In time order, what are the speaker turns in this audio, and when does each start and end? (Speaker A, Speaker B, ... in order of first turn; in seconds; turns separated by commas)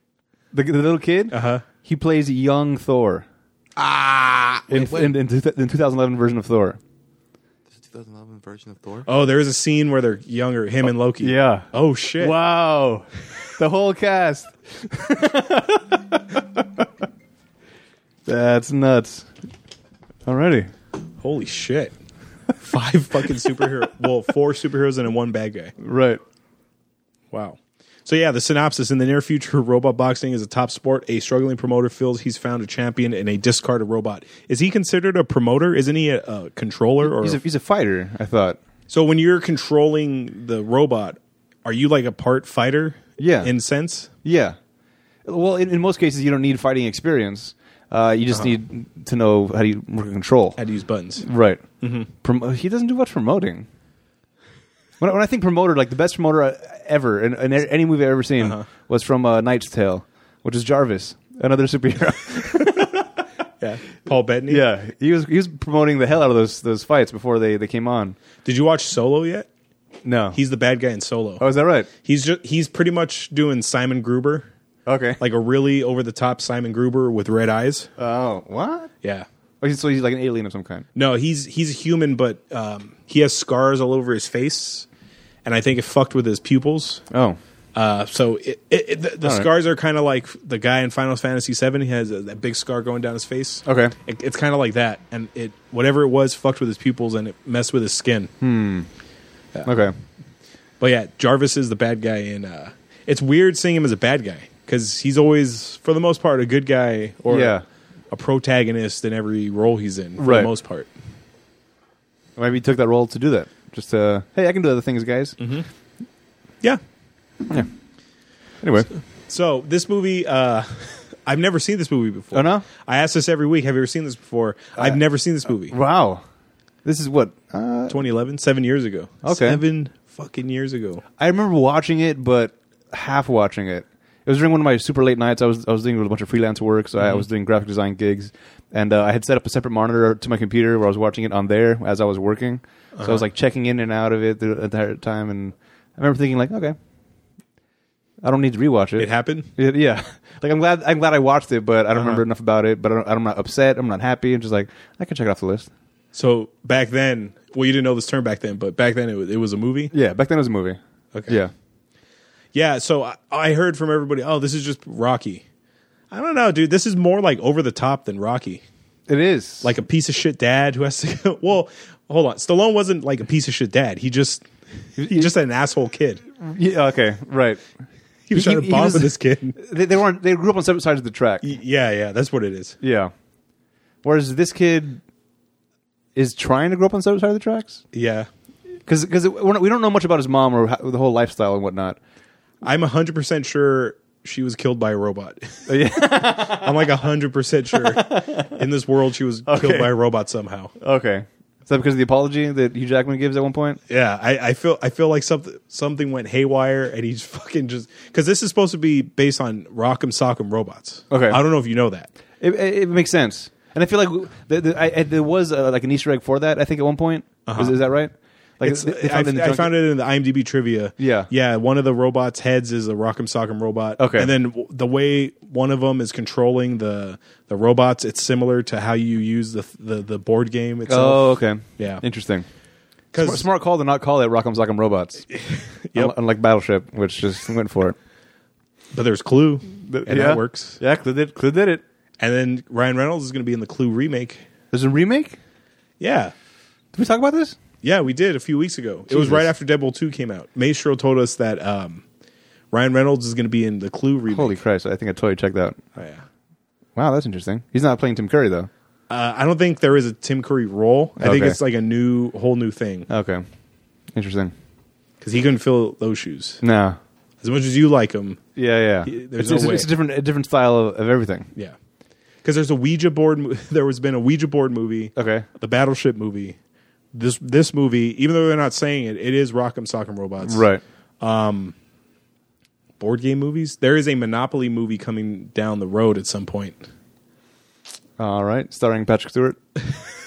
Speaker A: 0.5-3.3, Speaker B: 1.3-1.6, Speaker C: 3.8-5.1, Speaker A: 4.7-6.8, Speaker C: 7.7-9.1, Speaker B: 9.1-12.3, Speaker A: 11.2-11.7, Speaker A: 12.2-16.8, Speaker A: 18.3-19.3, Speaker A: 20.3-20.7, Speaker B: 21.2-21.9, Speaker B: 22.6-25.7, Speaker A: 25.8-26.2, Speaker B: 27.3-37.4, Speaker A: 37.0-38.6, Speaker B: 38.9-44.1, Speaker A: 43.2-43.5, Speaker A: 44.2-44.6, Speaker A: 45.2-50.6, Speaker B: 50.6-51.3, Speaker A: 51.2-51.6, Speaker B: 51.8-52.1, Speaker A: 52.2-53.7, Speaker A: 55.0-63.2, Speaker B: 63.6-64.6, Speaker A: 64.5-68.2, Speaker B: 68.5-69.5, Speaker A: 70.0-70.4, Speaker B: 70.3-71.4, Speaker A: 71.4-71.9, Speaker B: 72.0-74.5, Speaker A: 74.9-75.2, Speaker B: 75.2-77.9, Speaker A: 78.0-78.9, Speaker A: 79.6-80.8, Speaker B: 81.0-84.9, Speaker B: 85.5-87.0, Speaker A: 87.1-87.4, Speaker B: 87.8-98.3, Speaker A: 89.2-89.5, Speaker A: 93.7-93.9, Speaker A: 98.4-98.9, Speaker A: 99.7-99.9, Speaker B: 100.8-107.6, Speaker A: 107.3-107.6, Speaker B: 108.1-110.9, Speaker A: 110.2-110.5, Speaker A: 112.4-115.4, Speaker B: 115.4-115.7, Speaker A: 118.6-118.9, Speaker B: 119.3-125.8, Speaker A: 122.3-122.7, Speaker A: 125.7-126.2, Speaker A: 126.8-128.1, Speaker B: 127.9-131.0, Speaker A: 129.2-129.6, Speaker A: 131.2-146.8, Speaker B: 143.0-143.2, Speaker A: 148.2-155.7, Speaker B: 149.0-149.5, Speaker B: 151.9-152.2, Speaker B: 156.1-159.9, Speaker A: 159.9-161.5, Speaker B: 162.5-165.4, Speaker B: 166.1-168.6, Speaker A: 169.1-169.7, Speaker B: 169.6-176.2, Speaker A: 175.0-175.3, Speaker A: 176.4-177.6, Speaker B: 178.3-179.6, Speaker A: 178.3-181.4, Speaker B: 181.4-182.8, Speaker A: 182.8-183.1, Speaker A: 184.0-185.0, Speaker A: 186.2-187.8, Speaker B: 187.9-188.3, Speaker A: 188.9-192.0, Speaker B: 192.6-195.7, Speaker A: 195.7-196.9, Speaker B: 196.2-200.7, Speaker A: 197.7-198.6, Speaker A: 199.5-199.9, Speaker A: 200.8-203.8, Speaker B: 203.9-212.1, Speaker A: 211.1-211.4, Speaker A: 212.4-219.7, Speaker B: 217.5-217.8, Speaker B: 218.6-232.0, Speaker A: 221.0-221.3, Speaker A: 224.0-224.3, Speaker A: 230.9-232.5, Speaker B: 233.1-233.5, Speaker A: 233.2-235.3, Speaker B: 235.3-236.1, Speaker A: 235.9-238.0, Speaker B: 238.9-240.8, Speaker A: 239.8-241.8, Speaker B: 242.2-244.4, Speaker A: 244.7-245.4, Speaker B: 246.0-246.3, Speaker A: 246.9-247.6, Speaker B: 247.8-252.0, Speaker A: 249.1-249.5, Speaker B: 252.7-254.6, Speaker A: 254.3-255.8, Speaker B: 256.0-256.2, Speaker A: 257.0-258.7, Speaker B: 259.1-263.1, Speaker A: 261.2-261.6, Speaker A: 263.1-263.4, Speaker A: 264.1-264.5, Speaker B: 265.2-266.6, Speaker A: 266.6-267.0, Speaker B: 267.4-268.4, Speaker A: 268.6-271.5, Speaker B: 269.1-269.9, Speaker B: 272.4-276.6, Speaker A: 275.2-275.5, Speaker B: 277.1-280.7, Speaker A: 280.4-280.8, Speaker B: 281.2-281.7, Speaker B: 283.0-286.8, Speaker A: 288.2-289.6